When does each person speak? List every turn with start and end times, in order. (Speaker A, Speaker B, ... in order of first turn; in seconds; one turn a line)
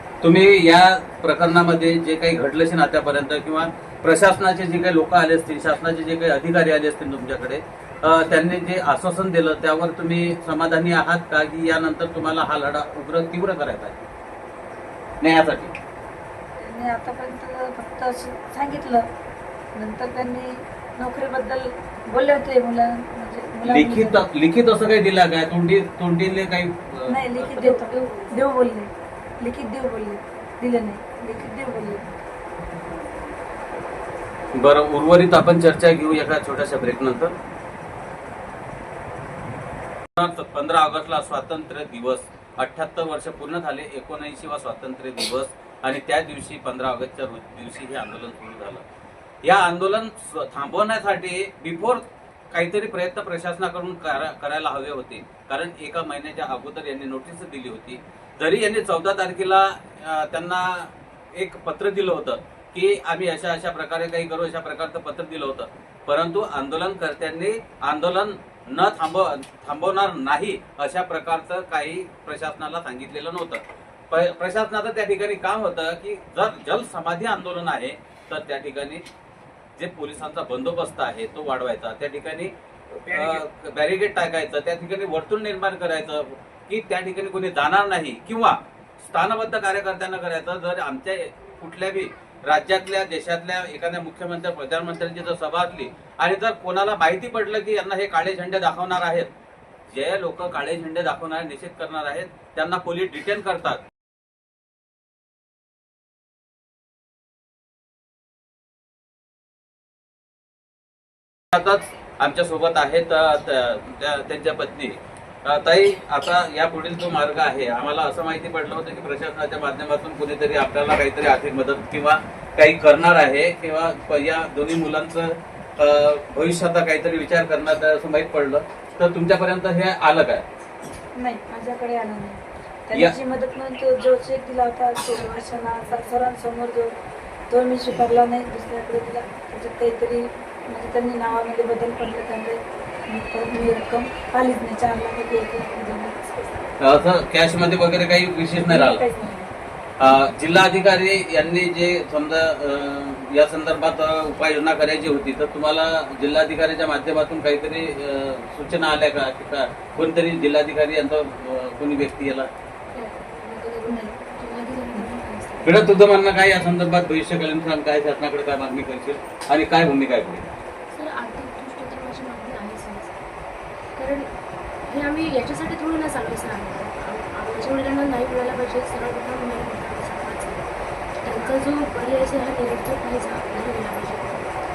Speaker A: 0.2-14.0
Speaker A: 15.2-15.7
Speaker B: 16.6-19.0
Speaker B: 19.8-24.2
Speaker A: 23.6-27.7
Speaker B: 27.1-32.0
Speaker C: 27.7-28.3
Speaker A: 34.5-37.4
Speaker A: 40.2-48.8
Speaker A: 49.4-79.0
Speaker A: 79.8-82.5
Speaker A: 83.0-99.3
Speaker A: 99.9-103.8
Speaker A: 111.5-130.4
Speaker B: 131.2-136.9
Speaker B: 137.5-146.7
Speaker A: 146.8-149.0
Speaker B: 148.6-149.5
Speaker A: 150.0-162.5
Speaker C: 162.9-165.9
Speaker A: 165.6-170.5
Speaker C: 170.9-173.1
Speaker C: 173.9-174.3
Speaker C: 174.9-180.6
Speaker C: 181.2-184.4